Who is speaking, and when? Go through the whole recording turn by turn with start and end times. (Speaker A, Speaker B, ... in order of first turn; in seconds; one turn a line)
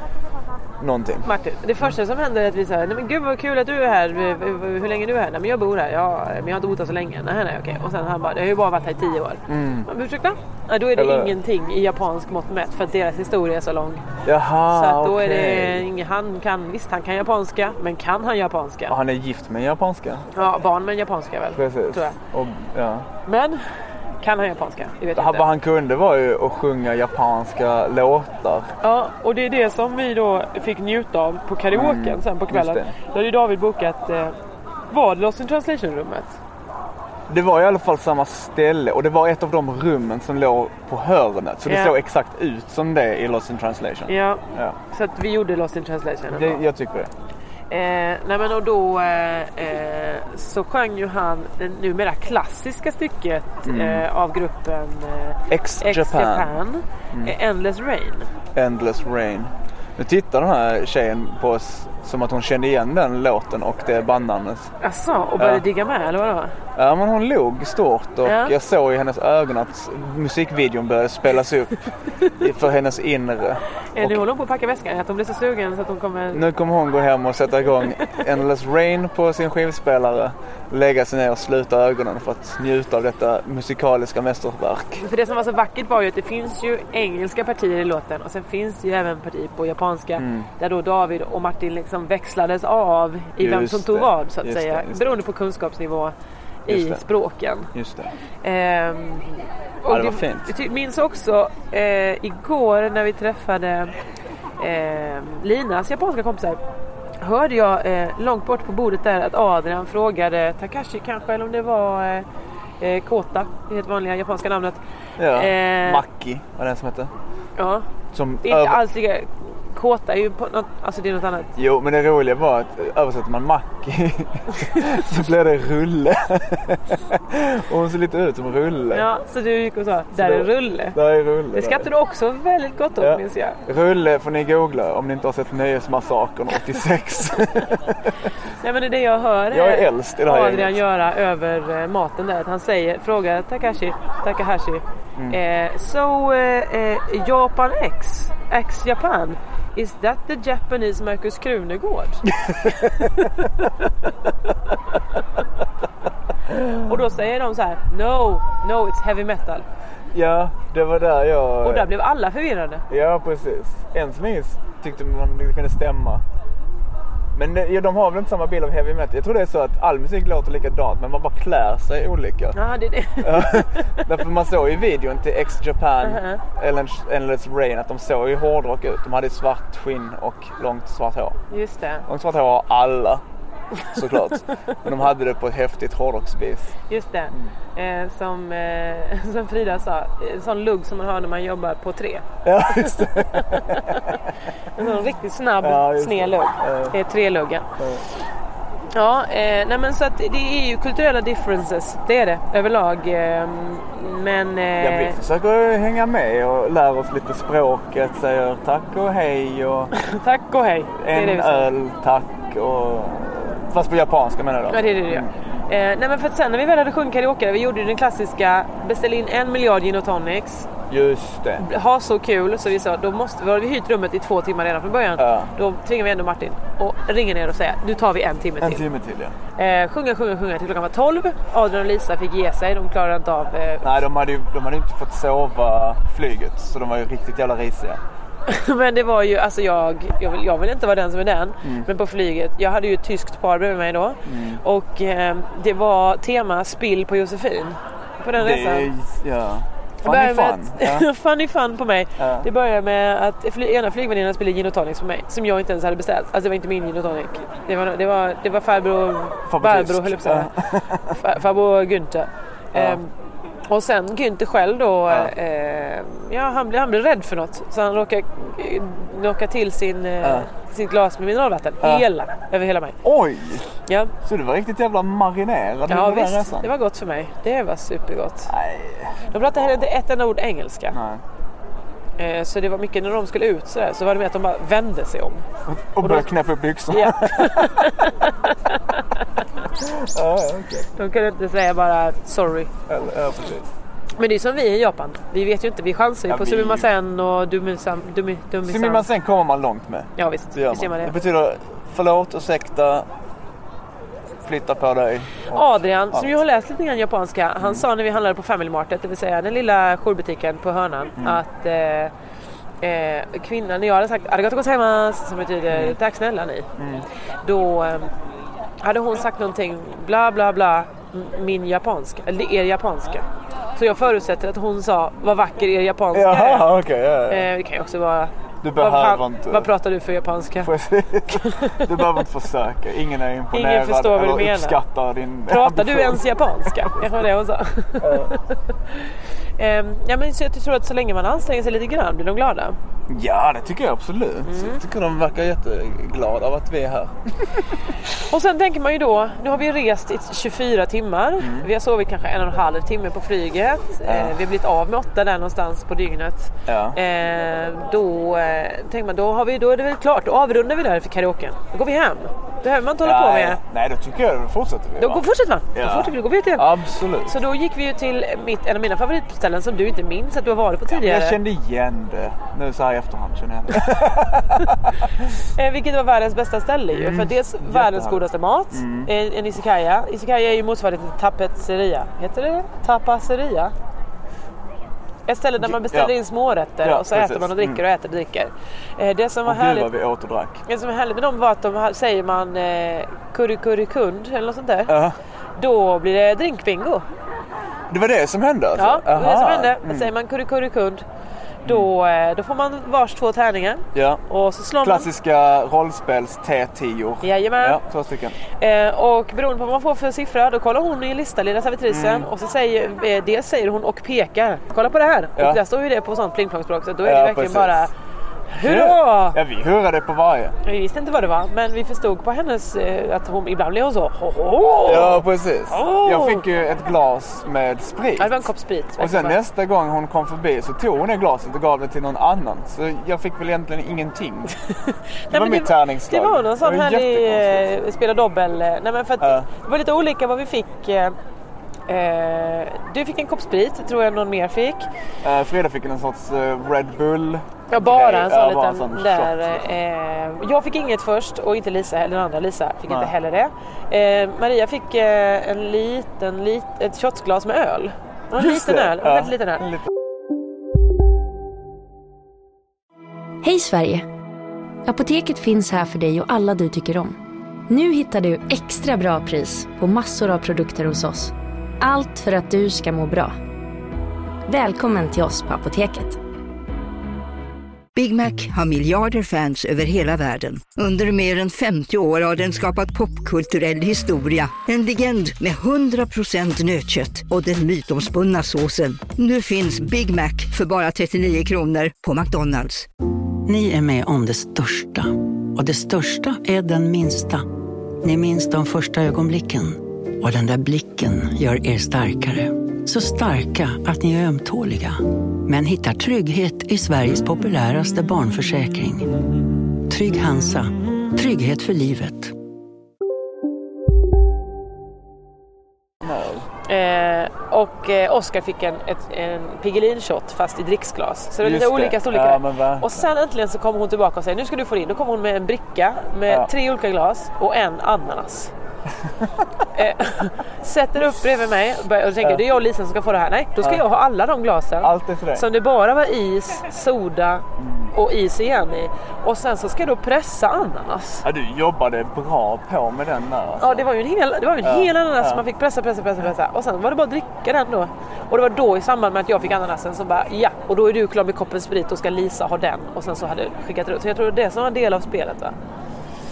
Speaker A: 0.8-1.3
Speaker B: 1.2-14.1
Speaker A: 9.5-9.9
Speaker A: 10.9-11.3
Speaker A: 14.2-15.8
Speaker B: 14.7-18.9
Speaker A: 18.9-20.3
Speaker B: 20.3-22.1
Speaker A: 21.5-23.1
Speaker B: 23.2-23.6
Speaker B: 24.2-25.5
Speaker A: 25.1-28.7
Speaker B: 28.8-34.3
Speaker A: 31.7-32.9
Speaker B: 34.9-36.4
Speaker A: 37.3-44.8
Speaker B: 41.6-42.0
Speaker B: 44.1-46.6
Speaker A: 46.3-47.1
Speaker B: 47.7-58.3
Speaker A: 53.6-54.0
Speaker A: 55.5-56.6
Speaker A: 58.5-64.7
Speaker B: 64.8-66.5
Speaker A: 65.4-65.7
Speaker A: 66.8-74.2
Speaker B: 68.2-68.5
Speaker B: 73.9-76.4
Speaker A: 76.3-85.0
Speaker B: 85.0-96.1
Speaker A: 90.2-90.5
Speaker A: 93.4-95.2
Speaker B: 96.7-97.7
Speaker A: 96.7-97.0
Speaker A: 97.7-98.1
Speaker B: 98.4-103.9
Speaker A: 99.9-100.5
Speaker B: 104.6-106.6
Speaker B: 107.2-112.2
Speaker B: 112.8-116.0
Speaker A: 115.2-117.1
Speaker B: 117.6-117.8
Speaker A: 118.1-118.8
Speaker B: 118.4-121.5
Speaker A: 121.5-129.1
Speaker B: 128.9-131.0
Speaker A: 130.1-131.9
Speaker B: 131.5-133.6
Speaker A: 133.0-138.3
Speaker B: 138.5-153.7
Speaker A: 139.5-140.8
Speaker A: 152.3-153.2
Speaker A: 156.5-156.9
Speaker B: 156.7-159.7
Speaker A: 160.1-161.9
Speaker B: 161.6-162.8
Speaker A: 162.9-166.2
Speaker A: 167.3-172.6
Speaker B: 172.5-174.0
Speaker A: 173.2-181.4
Speaker B: 176.0-176.4
Speaker B: 181.5-182.1
Speaker A: 182.1-183.2
Speaker A: 183.9-186.7
Speaker B: 186.9-194.2
Speaker A: 192.4-194.2
Speaker B: 194.7-197.7
Speaker A: 195.6-196.9
Speaker A: 197.8-198.1
Speaker B: 198.9-205.2
Speaker A: 204.8-209.9
Speaker B: 209.9-211.7
Speaker A: 210.9-215.3
Speaker B: 214.7-220.7
Speaker A: 220.9-221.7
Speaker B: 221.6-228.8
Speaker A: 225.2-225.5
Speaker A: 228.6-229.3
Speaker B: 229.6-234.0
Speaker A: 233.8-238.0
Speaker B: 238.5-248.9
Speaker A: 241.6-241.9
Speaker A: 244.2-244.6
Speaker A: 248.4-251.1
Speaker B: 250.0-260.5
Speaker A: 252.2-252.5
Speaker A: 259.5-261.2
Speaker B: 261.0-263.1
Speaker A: 262.7-263.0
Speaker B: 263.7-273.0
Speaker A: 265.1-265.3
Speaker A: 270.2-270.5
Speaker A: 271.8-272.1
Speaker A: 273.0-273.7
Speaker B: 273.9-274.1
Speaker A: 274.2-276.7
Speaker B: 275.9-278.5
Speaker A: 278.5-279.7
Speaker B: 279.3-280.9
Speaker A: 280.9-281.2
Speaker B: 282.2-285.4
Speaker A: 285.6-287.9
Speaker B: 286.0-286.3
Speaker B: 286.9-289.2
Speaker A: 289.7-290.9
Speaker B: 290.9-292.7
Speaker A: 292.9-293.7
Speaker B: 294.2-299.1
Speaker A: 296.3-296.9
Speaker A: 298.6-303.1
Speaker B: 300.2-301.1
Speaker A: 304.4-306.3
Speaker B: 305.5-312.1
Speaker A: 307.6-307.8
Speaker B: 312.8-316.7
Speaker A: 316.8-317.0
Speaker B: 317.4-318.1
Speaker B: 318.8-326.7
Speaker A: 326.1-327.5
Speaker B: 327.3-330.7
Speaker A: 328.6-329.7
Speaker A: 330.6-337.1
Speaker B: 331.3-332.2
Speaker B: 333.5-334.8
Speaker B: 335.5-342.8
Speaker A: 338.0-338.3
Speaker A: 343.1-347.7
Speaker B: 344.4-344.8
Speaker B: 348.1-363.6
Speaker A: 351.4-351.7
Speaker A: 354.0-354.4
Speaker A: 356.7-357.0
Speaker A: 363.0-367.4
Speaker B: 365.0-366.6
Speaker B: 367.2-371.4
Speaker A: 370.9-375.1
Speaker B: 375.5-383.7
Speaker A: 376.9-379.1
Speaker B: 385.3-389.9
Speaker A: 385.6-386.1
Speaker A: 386.8-387.8
Speaker A: 389.4-390.6
Speaker B: 390.6-394.9
Speaker A: 394.9-395.2
Speaker B: 395.6-397.0
Speaker A: 397.9-400.1
Speaker B: 398.8-401.0
Speaker B: 401.6-405.1
Speaker A: 403.9-404.2
Speaker A: 404.8-408.4
Speaker B: 407.2-407.8
Speaker B: 408.5-417.9
Speaker A: 411.9-412.3
Speaker A: 417.0-417.9
Speaker B: 418.5-419.4
Speaker A: 418.6-420.5
Speaker B: 420.6-426.4
Speaker A: 424.8-428.4
Speaker B: 428.2-429.4
Speaker A: 429.0-434.5
Speaker B: 434.9-441.1
Speaker A: 435.3-437.8
Speaker A: 439.2-439.5
Speaker B: 441.9-444.9
Speaker A: 445.2-449.7
Speaker B: 447.7-459.7
Speaker A: 452.9-453.1
Speaker A: 458.3-459.9
Speaker C: 463.4-464.1
Speaker C: 464.9-467.2
Speaker C: 467.7-473.4
Speaker C: 474.5-476.2
Speaker D: 477.9-492.9
Speaker E: 493.4-497.4
Speaker E: 498.0-509.2
Speaker E: 509.8-512.3
Speaker A: 516.0-516.5
Speaker B: 516.6-528.5
Speaker A: 521.4-523.1
Speaker B: 529.7-541.2
Speaker A: 534.8-535.5
Speaker A: 537.6-537.9
Speaker A: 541.2-543.9
Speaker B: 543.6-555.5
Speaker A: 544.6-545.4